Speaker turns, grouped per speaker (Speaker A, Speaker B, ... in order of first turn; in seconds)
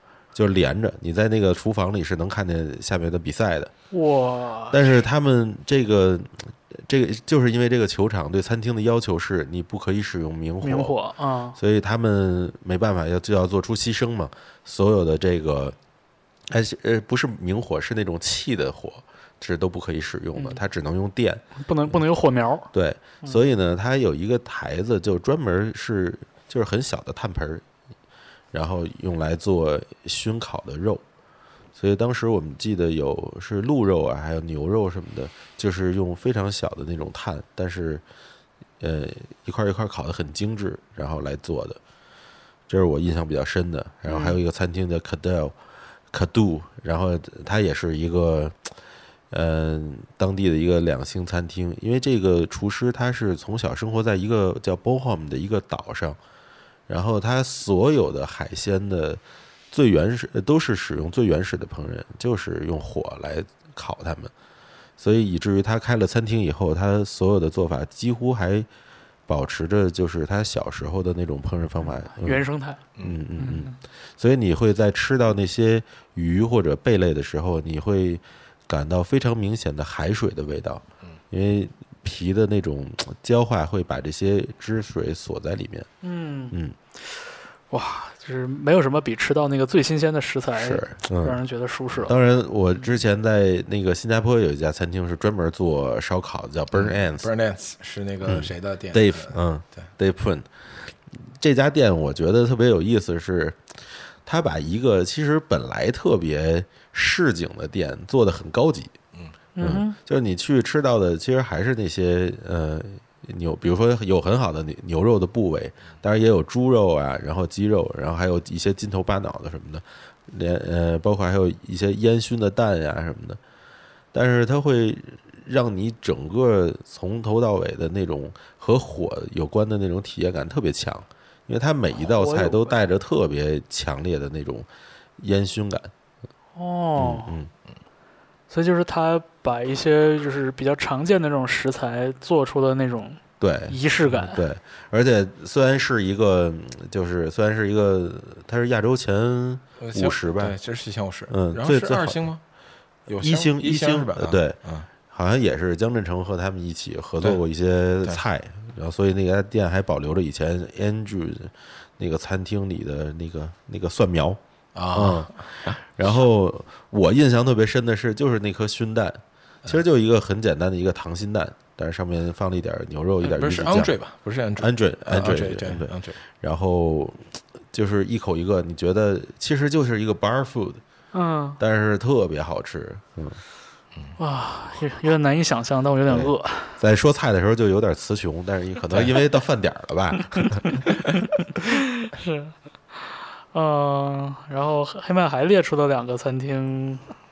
Speaker A: 0.3-3.7, 4.7-10.9, 11.6-15.8, 16.5-22.0, 22.7-27.6, 28.5-31.0, 31.7-38.0, 38.8-41.8, 42.7-45.5, 46.1-48.7, 49.3-56.2, 56.9-64.3, 65.0-68.7, 69.3-72.4, 73.0-85.9, 90.5-91.4, 92.0-97.3, 98.2-108.9, 109.6-123.4, 124.1-135.9, 137.0-137.5, 143.4-150.5, 151.3-152.2, 153.2-154.6, 155.1-164.4, 164.9-173.9, 174.6-180.8, 181.6-183.4, 186.1-190.8
Speaker B: 3.9-5.0, 10.6-11.6, 20.4-20.6, 21.6-22.7, 44.1-44.4, 72.1-72.8, 73.4-73.8, 86.0-86.6, 87.7-92.1, 109.5-110.0, 132.0-132.7, 136.6-137.3, 138.5-144.4, 181.1-181.6, 184.2-186.8, 191.5-197.1
Speaker C: 96.7-99.9, 149.8-152.4, 153.1-154.9, 164.7-165.8, 173.2-176.2, 188.9-189.2